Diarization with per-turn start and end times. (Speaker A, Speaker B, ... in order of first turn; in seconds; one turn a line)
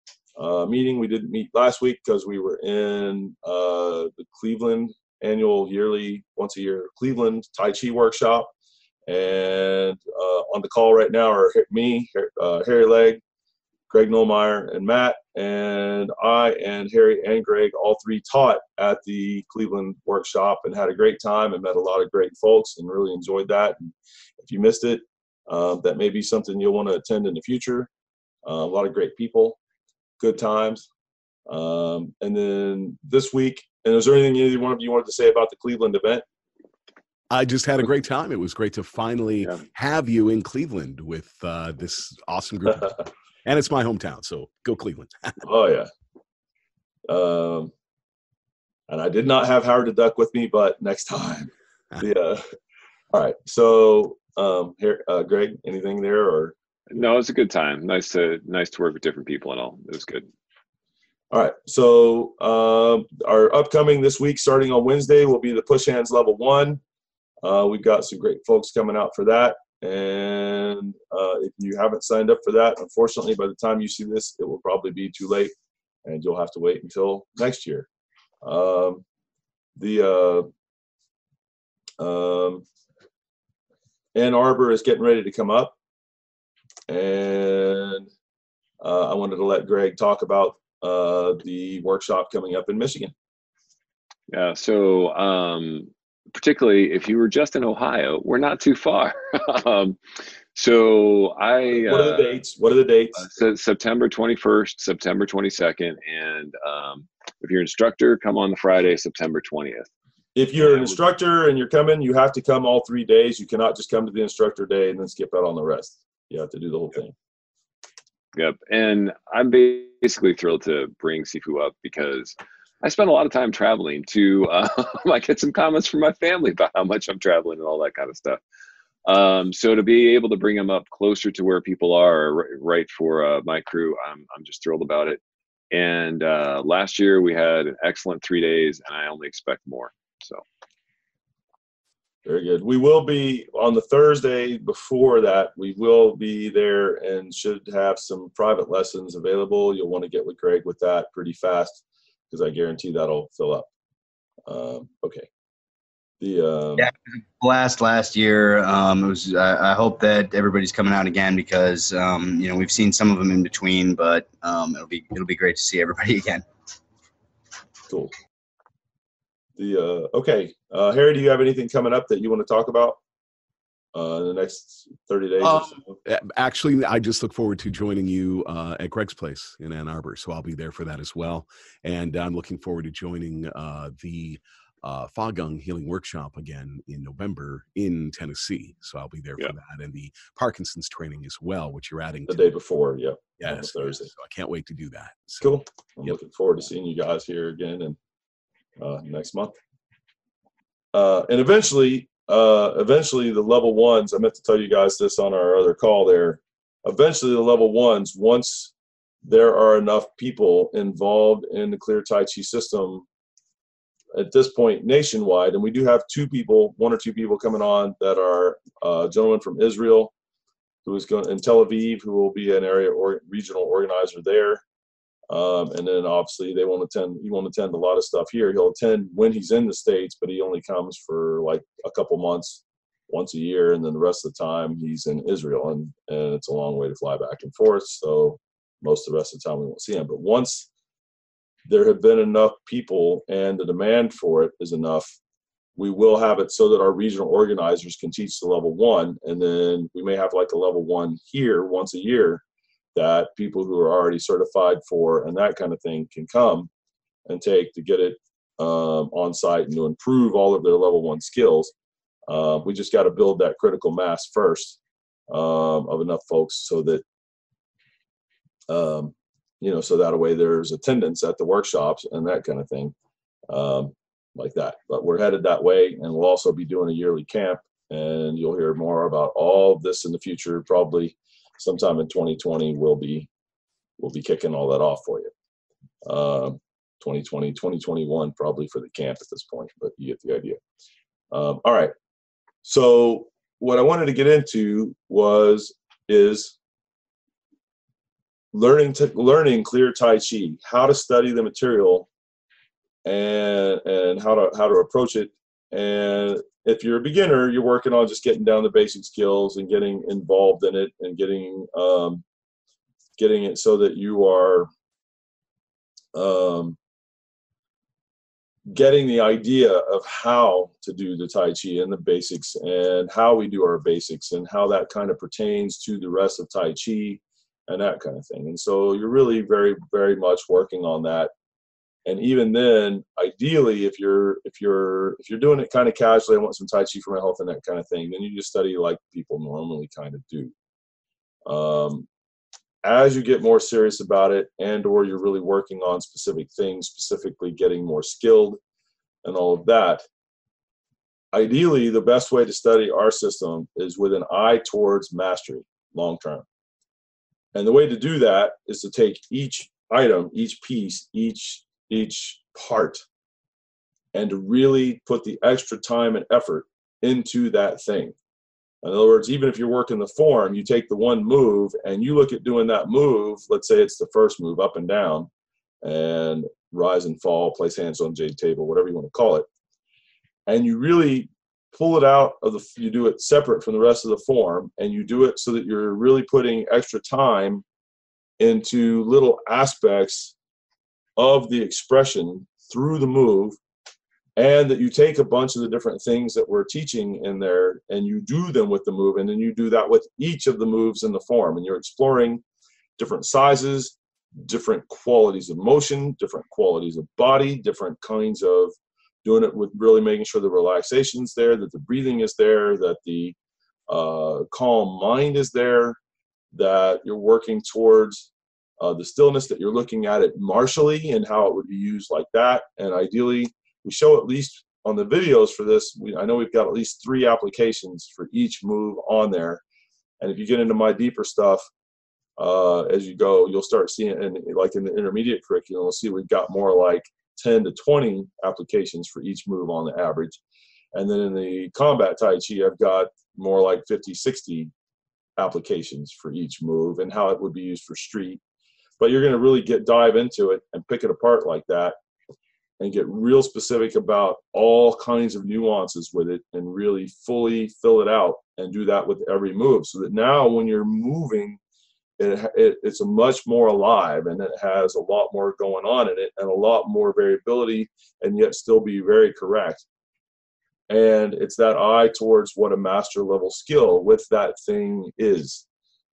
Speaker A: 0.4-8.5
Speaker A: 9.1-13.2
Speaker A: 13.9-27.9
Speaker A: 28.5-29.6
Speaker A: 30.2-30.9
Speaker A: 31.5-36.2
Speaker B: 37.3-45.4
Speaker A: 45.4-45.9
Speaker A: 47.1-47.7
Speaker A: 48.9-52.4
Speaker A: 53.1-56.5
Speaker C: 56.9-60.3
Speaker A: 61.3-66.8
Speaker A: 67.4-75.5
Speaker A: 76.0-77.9
Speaker A: 78.4-79.0
Speaker A: 79.8-80.5
Speaker A: 82.0-82.7
Speaker A: 84.1-85.7
Speaker A: 86.9-88.1
Speaker A: 88.8-93.1
Speaker C: 94.3-100.0
Speaker C: 100.5-102.3
Speaker A: 101.8-103.2
Speaker C: 103.2-109.9
Speaker A: 110.3-117.1
Speaker C: 110.6-111.0
Speaker C: 118.3-128.4
Speaker C: 129.1-135.2
Speaker C: 135.7-140.4
Speaker A: 142.2-153.7
Speaker A: 154.5-155.3
Speaker A: 156.2-156.9
Speaker D: 156.8-166.4
Speaker A: 169.6-173.0
Speaker A: 173.9-175.9
Speaker B: 175.4-192.5
Speaker A: 192.3-194.1
Speaker B: 193.4-196.2
Speaker A: 195.4-198.0
Speaker A: 198.8-199.5
Speaker A: 200.9-208.7
Speaker A: 209.2-213.1
Speaker A: 214.2-220.1
Speaker A: 220.8-224.6
Speaker A: 225.3-240.7
Speaker A: 241.7-245.1
Speaker A: 245.8-252.4
Speaker A: 252.9-256.7
Speaker A: 257.2-261.7
Speaker A: 262.3-264.8
Speaker A: 265.3-267.0
Speaker A: 268.7-272.9
Speaker A: 273.5-283.3
Speaker A: 284.0-285.3
Speaker A: 286.1-290.6
Speaker A: 291.3-291.9
Speaker A: 292.6-296.6
Speaker A: 298.5-302.1
Speaker A: 303.1-312.2
Speaker A: 313.2-314.7
Speaker A: 316.1-316.8
Speaker A: 318.7-331.3
Speaker A: 332.1-340.5
Speaker A: 341.5-342.1
Speaker A: 342.8-348.6
Speaker A: 349.2-350.0
Speaker A: 351.3-356.4
Speaker A: 357.5-363.0
Speaker A: 364.1-368.2
Speaker A: 368.8-375.3
Speaker A: 375.8-379.4
Speaker A: 380.5-387.6
Speaker A: 388.4-390.4
Speaker A: 391.2-393.6
Speaker A: 394.4-402.4
Speaker A: 403.0-413.4
Speaker A: 413.9-416.0
Speaker A: 416.5-429.6
Speaker A: 430.2-431.7
Speaker A: 432.4-440.4
Speaker A: 440.9-444.7
Speaker A: 445.4-448.4
Speaker A: 449.0-451.9
Speaker A: 452.8-461.6
Speaker A: 462.2-469.8
Speaker A: 470.9-475.6